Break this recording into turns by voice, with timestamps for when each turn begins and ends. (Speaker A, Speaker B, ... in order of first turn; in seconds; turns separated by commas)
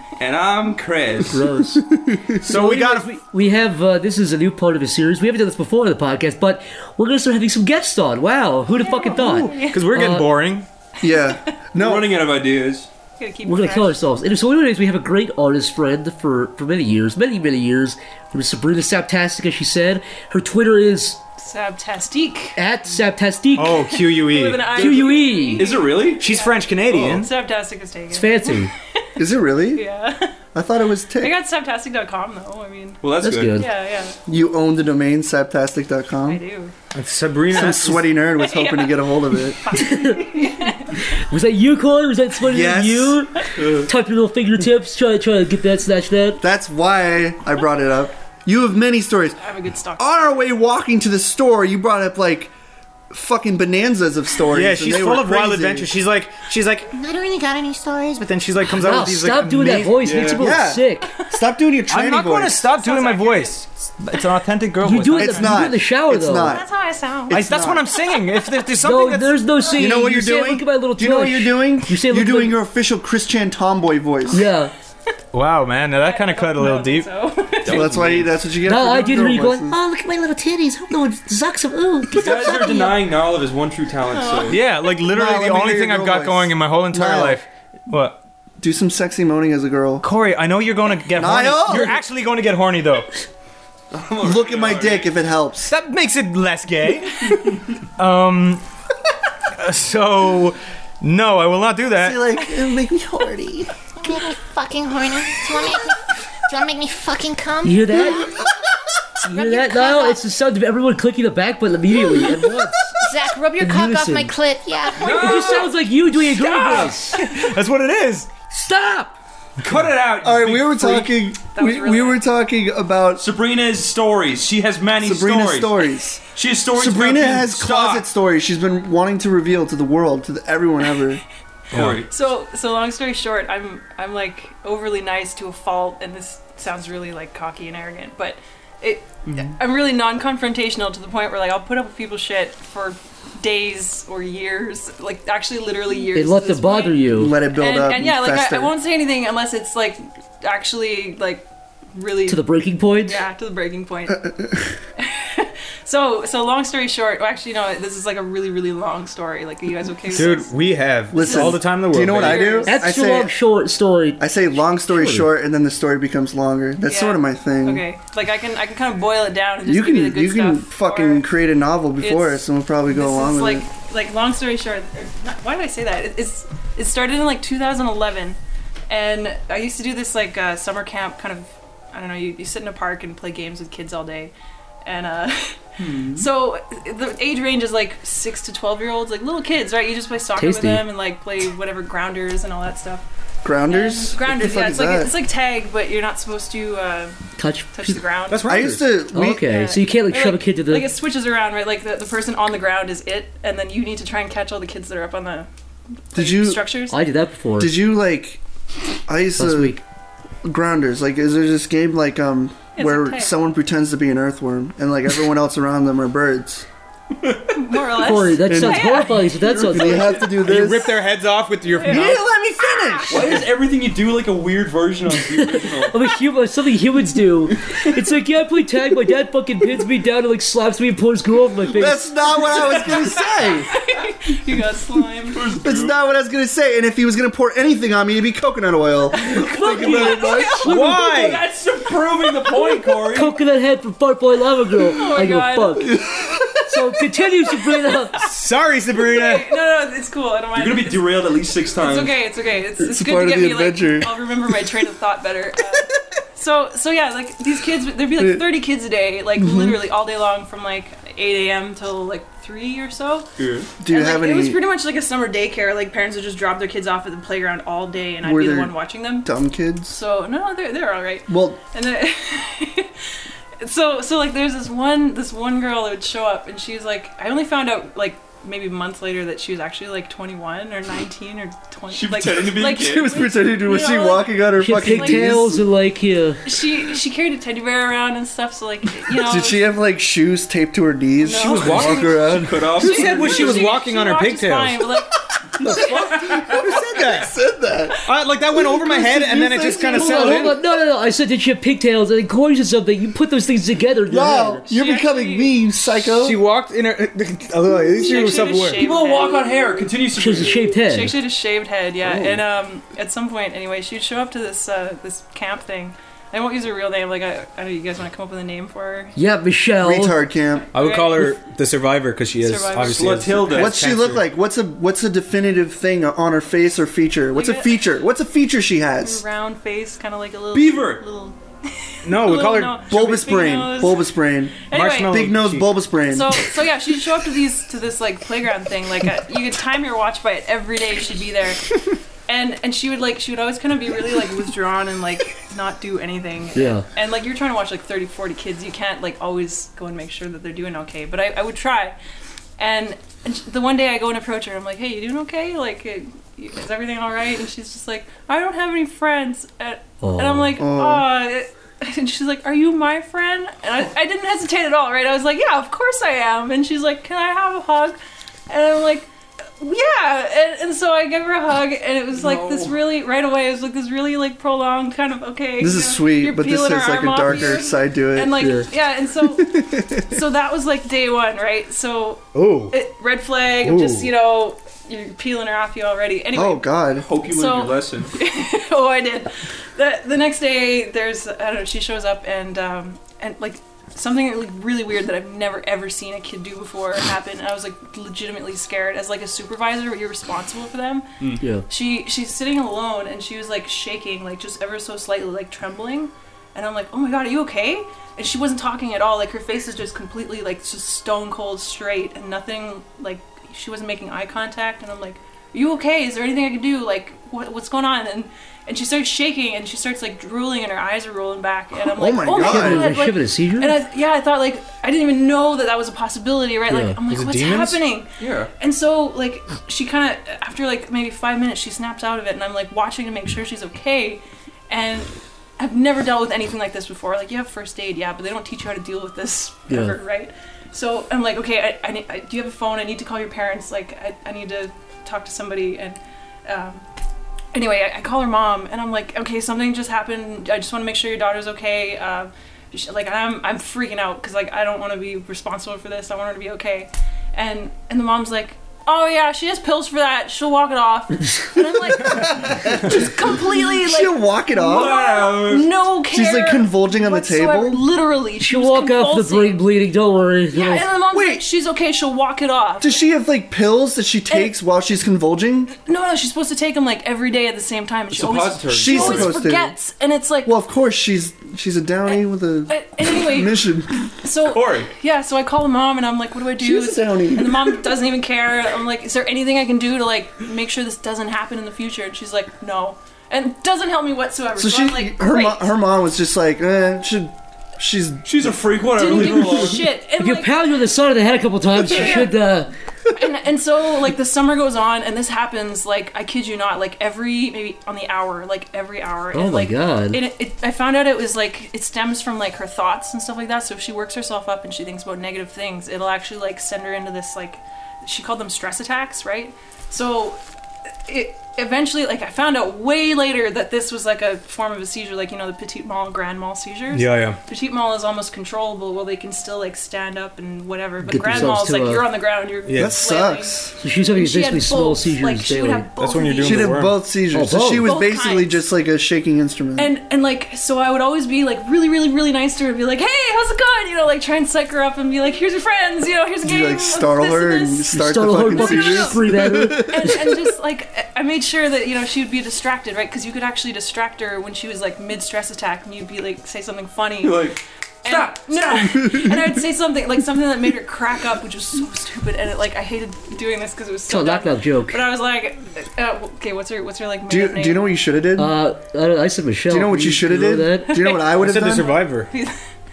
Speaker A: 0.2-1.4, Speaker B: 1.3-1.9, Speaker C: 2.0-2.3, Speaker D: 2.4-3.2, Speaker B: 2.4-10.3, Speaker E: 8.7-9.9, Speaker D: 9.7-10.7, Speaker C: 11.0-12.1, Speaker E: 11.1-11.4, Speaker A: 11.8-12.9, Speaker E: 13.2-13.9, Speaker B: 13.4-21.2, Speaker E: 21.4-22.6, Speaker B: 22.6-23.9, Speaker D: 23.6-24.7, Speaker E: 23.8-29.1, Speaker B: 24.7-25.7, Speaker A: 24.8-26.4, Speaker D: 26.1-27.3, Speaker A: 26.9-27.2, Speaker B: 28.1-28.7, Speaker C: 29.2-29.9, Speaker E: 29.7-30.3, Speaker C: 30.5-31.3, Speaker E: 31.1-33.0, Speaker A: 33.0-33.6, Speaker B: 33.2-33.7, Speaker E: 33.5-34.2, Speaker C: 34.3-36.4, Speaker E: 36.2-36.7, Speaker D: 36.9-38.0, Speaker C: 37.5-39.8, Speaker E: 38.2-41.1, Speaker B: 39.7-40.3, Speaker B: 41.1-46.4, Speaker C: 42.4-43.2, Speaker A: 43.6-43.9, Speaker C: 46.4-49.5, Speaker E: 49.4-50.1, Speaker C: 50.0-52.5, Speaker C: 53.1-55.9, Speaker D: 54.5-56.9, Speaker F: 56.9-58.4, Speaker D: 58.2-60.4, Speaker B: 58.8-61.1, Speaker C: 60.1-62.6, Speaker D: 61.9-65.7, Speaker E: 62.6-63.6, Speaker B: 64.8-66.6, Speaker C: 65.2-66.6, Speaker E: 66.4-67.3, Speaker C: 67.3-67.9, Speaker D: 67.3-69.4, Speaker B: 68.8-72.6, Speaker C: 69.8-74.4, Speaker B: 74.3-74.7, Speaker D: 75.3-77.1, Speaker E: 76.0-78.0, Speaker A: 77.6-78.3, Speaker C: 77.7-79.8, Speaker B: 78.6-79.8, Speaker F: 79.7-81.2, Speaker B: 80.5-82.8, Speaker F: 82.0-83.0, Speaker A: 82.1-84.6, Speaker E: 82.5-82.8, Speaker E: 84.1-84.9, Speaker D: 84.5-88.2, Speaker C: 85.1-87.4, Speaker C: 88.6-90.1, Speaker D: 90.0-93.1, Speaker C: 91.1-92.0, Speaker A: 93.9-95.1, Speaker C: 94.2-95.7, Speaker D: 95.7-98.6, Speaker D: 99.6-102.2, Speaker C: 102.0-103.7, Speaker F: 104.0-108.5, Speaker B: 107.6-108.2, Speaker B: 109.2-112.9, Speaker F: 109.2-110.2, Speaker F: 113.0-115.4, Speaker B: 113.6-114.3, Speaker A: 115.0-115.7, Speaker B: 115.0-117.2, Speaker E: 115.1-115.6, Speaker E: 116.3-117.5, Speaker D: 116.8-118.4, Speaker B: 118.5-119.1, Speaker D: 119.6-119.9, Speaker A: 119.6-121.1, Speaker C: 120.2-123.2, Speaker E: 121.5-122.2, Speaker A: 123.2-125.8, Speaker C: 125.0-126.2, Speaker A: 126.3-128.0, Speaker C: 126.7-131.2, Speaker A: 131.7-132.1, Speaker D: 131.7-132.0, Speaker E: 132.1-154.2, Speaker A: 139.2-139.5, Speaker B: 146.1-147.3, Speaker C: 147.1-148.7, Speaker B: 152.3-153.2, Speaker C: 154.1-154.8, Speaker E: 155.0-160.5, Speaker D: 160.1-162.6, Speaker C: 161.1-163.3, Speaker E: 161.2-162.8, Speaker B: 162.7-165.3, Speaker C: 164.2-167.8, Speaker E: 166.8-171.2, Speaker C: 169.6-173.6, Speaker E: 172.0-178.4, Speaker E: 178.9-184.3, Speaker E: 184.8-193.0, Speaker A: 185.8-186.3, Speaker B: 190.4-190.8, Speaker C: 193.4-195.1, Speaker E: 193.7-197.2, Speaker B: 197.4-197.7, Speaker E: 197.7-198.5, Speaker D: 198.3-198.8, Speaker C: 198.5-199.5, Speaker B: 199.1-200.9, Speaker E: 199.3-205.5, Speaker E: 206.1-207.0, Speaker C: 206.1-206.6, Speaker B: 206.9-207.7, Speaker C: 207.6-208.4, Speaker C: 209.1-209.8, Speaker B: 209.4-209.8, Speaker C: 210.4-216.7, Speaker E: 212.8-213.3, Speaker A: 217.1-217.6, Speaker E: 217.5-219.5, Speaker B: 218.0-220.2, Speaker C: 218.4-221.0, Speaker A: 219.6-220.2, Speaker D: 220.3-222.3, Speaker E: 221.7-222.2, Speaker C: 221.8-223.4, Speaker A: 223.1-226.0, Speaker B: 225.2-232.0, Speaker C: 231.7-233.7, Speaker A: 232.5-233.2, Speaker E: 233.7-235.5, Speaker A: 235.3-235.9, Speaker C: 235.6-240.8, Speaker E: 239.2-240.9, Speaker B: 239.5-241.0, Speaker D: 240.6-241.4, Speaker A: 240.9-243.3, Speaker E: 242.4-242.8, Speaker B: 243.1-246.0, Speaker E: 244.8-246.0, Speaker C: 245.8-246.8, Speaker B: 246.7-248.2, Speaker E: 247.9-248.2, Speaker D: 248.2-249.5, Speaker E: 248.9-263.3, Speaker A: 250.5-252.1, Speaker C: 252.8-254.2, Speaker C: 258.2-258.4, Speaker C: 259.4-259.8, Speaker A: 263.4-263.7, Speaker C: 263.8-264.6, Speaker E: 263.9-269.3, Speaker C: 268.2-270.0, Speaker E: 269.9-272.9, Speaker C: 271.3-271.6, Speaker E: 273.6-285.5, Speaker A: 281.9-283.1, Speaker C: 282.7-285.6, Speaker B: 284.6-286.4, Speaker E: 286.4-289.7, Speaker C: 289.1-292.9, Speaker E: 291.2-296.6, Speaker A: 291.4-293.7, Speaker D: 292.8-294.9, Speaker C: 295.6-298.0, Speaker A: 295.7-296.4, Speaker D: 296.5-297.3, Speaker D: 298.0-300.6, Speaker C: 298.5-300.6, Speaker B: 299.9-304.6, Speaker C: 304.1-306.4, Speaker E: 304.7-305.6, Speaker D: 306.1-308.8, Speaker E: 308.0-309.5, Speaker A: 308.8-310.7, Speaker B: 310.2-311.1, Speaker E: 310.9-319.1, Speaker B: 319.1-320.2, Speaker C: 319.8-320.7, Speaker E: 320.7-321.4, Speaker D: 320.7-324.2, Speaker E: 322.4-323.4, Speaker A: 322.9-323.8, Speaker C: 323.5-329.2, Speaker E: 327.3-327.8, Speaker E: 329.0-334.0, Speaker A: 330.5-331.0, Speaker D: 332.0-332.8, Speaker C: 332.8-336.5, Speaker E: 334.7-335.2, Speaker D: 334.7-335.7, Speaker E: 336.1-351.9, Speaker B: 346.5-346.8, Speaker E: 352.6-368.0, Speaker B: 360.0-360.5, Speaker C: 360.6-361.1, Speaker E: 368.5-369.1, Speaker E: 369.6-386.7, Speaker A: 372.1-372.8, Speaker C: 375.6-378.5, Speaker B: 378.4-378.6, Speaker C: 379.5-379.9, Speaker D: 382.3-382.7, Speaker D: 383.6-384.1, Speaker C: 386.3-387.1, Speaker A: 387.0-388.1, Speaker E: 387.3-401.1, Speaker B: 401.4-401.6, Speaker E: 401.7-446.8, Speaker C: 421.9-423.0, Speaker B: 422.4-423.7, Speaker B: 426.7-426.9, Speaker D: 427.1-427.8, Speaker A: 428.2-428.5, Speaker B: 439.7-439.9, Speaker E: 447.5-469.6, Speaker C: 461.9-464.9, Speaker A: 464.6-465.7, Speaker C: 466.1-467.8, Speaker B: 468.4-470.9, Speaker E: 470.5-473.0, Speaker C: 471.1-471.4, Speaker C: 472.8-475.7, Speaker E: 475.7-480.5, Speaker A: 478.1-479.3, Speaker C: 478.7-479.7, Speaker C: 480.4-484.1, Speaker E: 482.1-483.7, Speaker E: 484.2-495.7, Speaker A: 484.4-484.9, Speaker C: 486.6-487.8, Speaker C: 494.6-498.7, Speaker A: 498.2-499.8, Speaker E: 498.9-500.5, Speaker B: 500.2-502.7, Speaker E: 501.8-502.3, Speaker E: 503.1-520.4, Speaker B: 509.3-510.2, Speaker E: 521.1-536.7, Speaker D: 526.9-527.4, Speaker B: 531.0-532.0, Speaker D: 532.7-533.0, Speaker C: 532.8-533.7, Speaker B: 533.8-535.9, Speaker D: 536.0-537.0, Speaker C: 536.4-539.9, Speaker B: 537.3-537.9, Speaker E: 537.8-538.6, Speaker E: 539.8-549.2, Speaker C: 546.4-550.4, Speaker B: 547.9-550.1, Speaker E: 549.9-568.0, Speaker A: 557.2-558.8, Speaker C: 558.9-559.5, Speaker B: 564.1-565.0, Speaker C: 567.3-568.5, Speaker B: 568.4-571.0, Speaker C: 569.7-571.9, Speaker E: 570.9-572.6, Speaker D: 571.3-572.3